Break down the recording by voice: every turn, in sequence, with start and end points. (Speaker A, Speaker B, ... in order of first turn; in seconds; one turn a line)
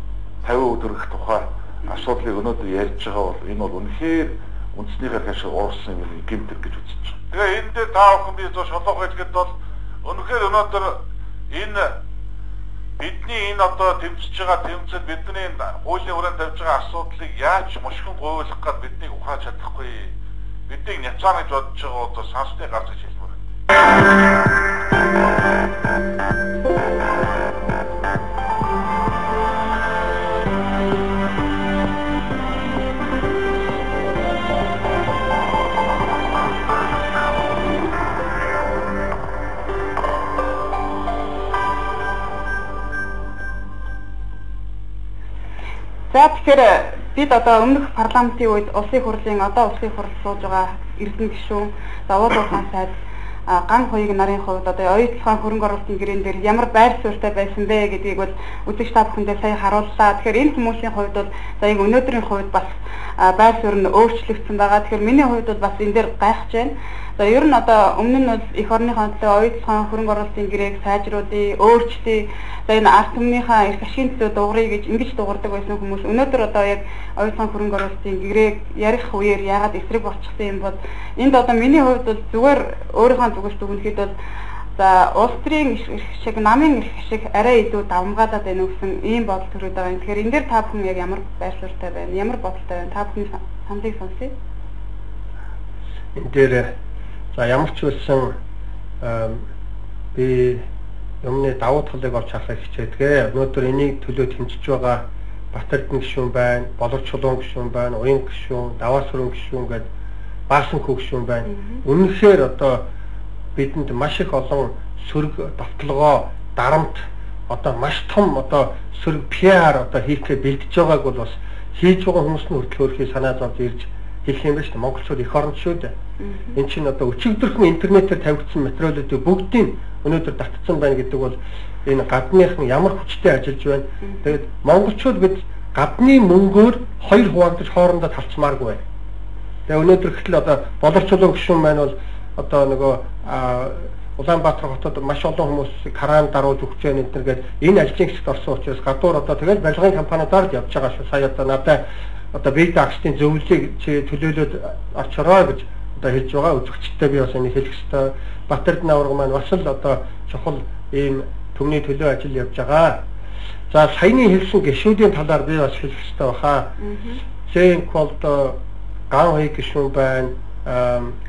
Speaker A: 0.4-9.5
Speaker A: 10.0-11.0
Speaker A: 11.5-11.9
Speaker A: 13.0-20.1
Speaker A: 20.7-23.4
Speaker B: 46.1-52.9
Speaker B: 53.5-84.1
Speaker B: 84.8-94.3
Speaker C: 96.2-96.7
Speaker C: 97.3-98.3
Speaker C: 99.0-99.4
Speaker C: 100.1-100.6
Speaker C: 101.2-109.9
Speaker C: 110.5-112.8
Speaker B: 111.5-111.8
Speaker C: 113.5-125.9
Speaker B: 126.2-126.6
Speaker C: 126.5-138.8
Speaker C: 139.7-151.8
Speaker C: 152.3-163.0
Speaker C: 163.7-166.7
Speaker B: 166.8-167.2
Speaker C: 167.4-168.6
Speaker C: 169.1-171.2